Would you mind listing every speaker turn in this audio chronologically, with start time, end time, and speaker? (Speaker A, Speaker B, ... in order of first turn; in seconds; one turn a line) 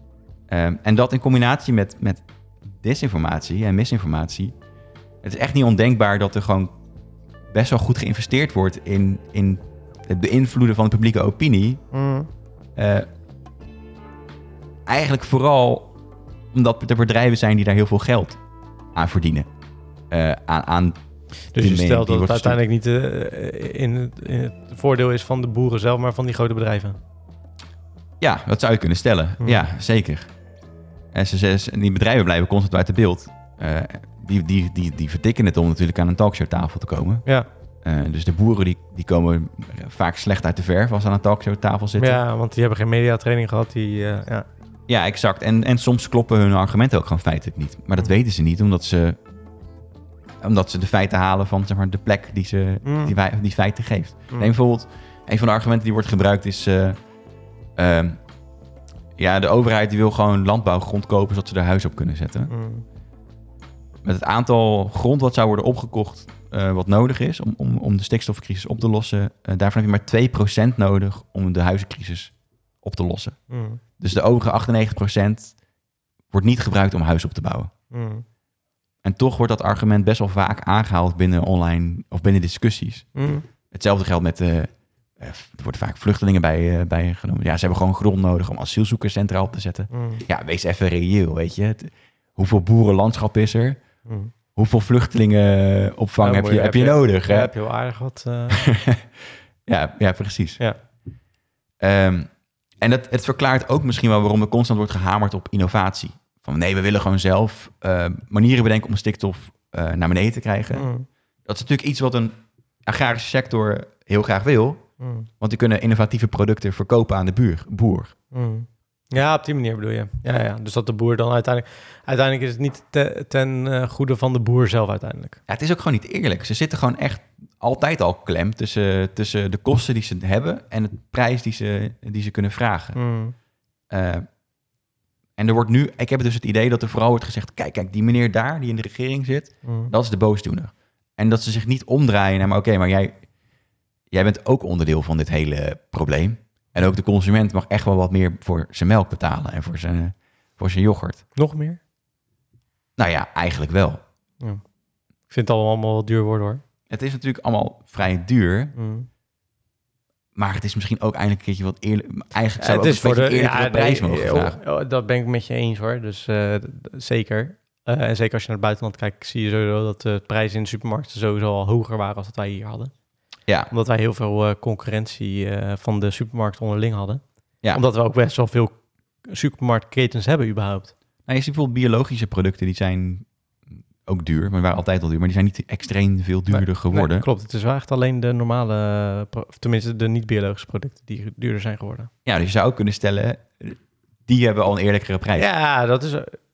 Speaker A: 0.5-4.5
Speaker A: 5.2-6.7
Speaker A: 7.5-11.8
Speaker B: 11.9-12.3
Speaker A: 12.8-13.1
Speaker A: 14.9-15.9
Speaker A: 16.5-18.4
Speaker A: 18.9-19.5
Speaker A: 20.1-21.0
Speaker B: 21.5-27.0
Speaker A: 21.6-22.6
Speaker A: 28.2-30.3
Speaker A: 31.1-37.2
Speaker A: 37.8-42.2
Speaker B: 42.0-44.5
Speaker A: 44.9-49.2
Speaker A: 50.4-57.0
Speaker B: 52.8-53.1
Speaker A: 57.8-58.2
Speaker A: 59.2-62.5
Speaker B: 62.5-62.9
Speaker A: 64.0-73.4
Speaker B: 73.5-73.8
Speaker A: 74.0-75.5
Speaker A: 76.3-77.7
Speaker B: 77.9-78.2
Speaker A: 79.0-83.1
Speaker B: 83.1-83.5
Speaker A: 83.7-93.8
Speaker B: 89.9-90.2
Speaker B: 94.1-94.3
Speaker A: 94.6-97.5
Speaker B: 96.2-98.6
Speaker A: 98.5-100.6
Speaker A: 101.8-102.3
Speaker A: 102.8-110.9
Speaker B: 110.7-111.1
Speaker A: 111.5-112.3
Speaker A: 112.9-114.8
Speaker B: 115.0-115.3
Speaker A: 115.4-118.1
Speaker B: 118.3-125.4
Speaker A: 125.5-133.0
Speaker B: 132.9-133.3
Speaker A: 133.9-134.2
Speaker A: 135.4-143.2
Speaker B: 139.6-139.9
Speaker A: 144.1-151.2
Speaker B: 151.4-151.8
Speaker A: 153.0-154.0
Speaker B: 155.3-156.6
Speaker A: 156.9-158.7
Speaker B: 158.8-159.1
Speaker A: 160.4-164.6
Speaker B: 162.6-172.9
Speaker B: 173.7-177.2
Speaker B: 177.7-178.8
Speaker B: 179.3-180.9
Speaker A: 181.3-183.3
Speaker A: 184.1-187.3
Speaker B: 186.5-192.1
Speaker A: 192.3-195.4
Speaker B: 195.4-196.4